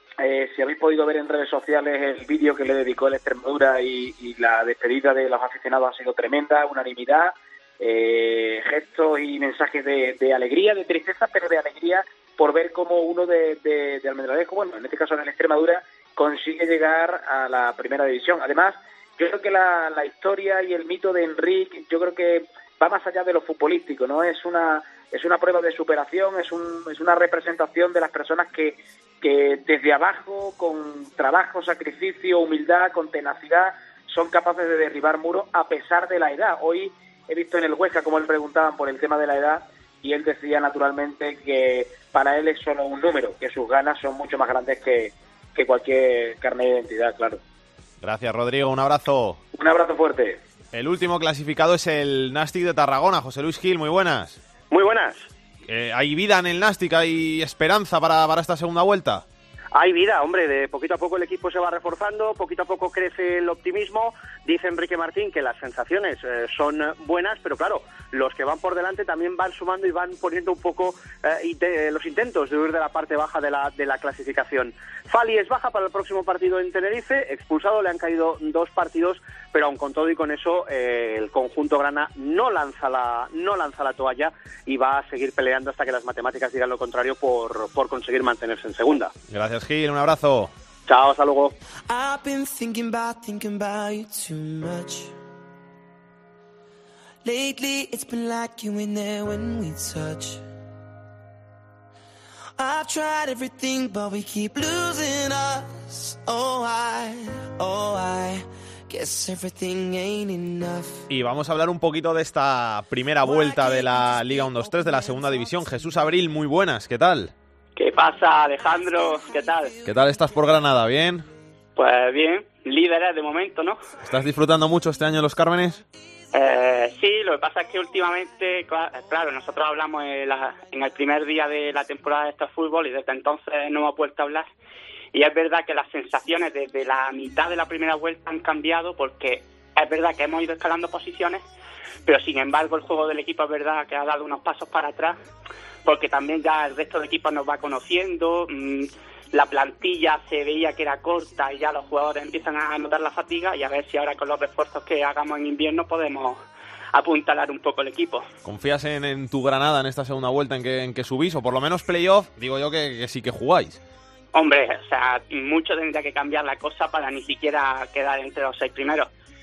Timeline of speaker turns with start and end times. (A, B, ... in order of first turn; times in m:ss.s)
0:00.2-0:47.4 A
0:48.0-0:49.4 B
0:49.5-0:50.4 A
0:50.7-0:54.4 B
0:54.7-0:55.3 C
0:55.6-0:59.2 B
0:59.8-1:29.1 C
1:29.3-1:30.5 B
1:30.9-1:31.5 C
1:31.9-1:35.1 D
1:37.2-1:40.4 D
1:42.6-1:51.0 D
1:51.1-1:57.3 B
1:57.8-1:59.7 E
1:59.8-2:01.3 B
2:01.8-2:03.8 E
2:04.0-2:05.8 B
2:06.3-2:14.5 E
2:15.1-2:21.4 E
2:22.1-2:25.2 E
2:25.8-2:36.4 E
2:36.9-2:38.3 E
2:38.4-2:43.8 B
2:44.3-2:49.1 E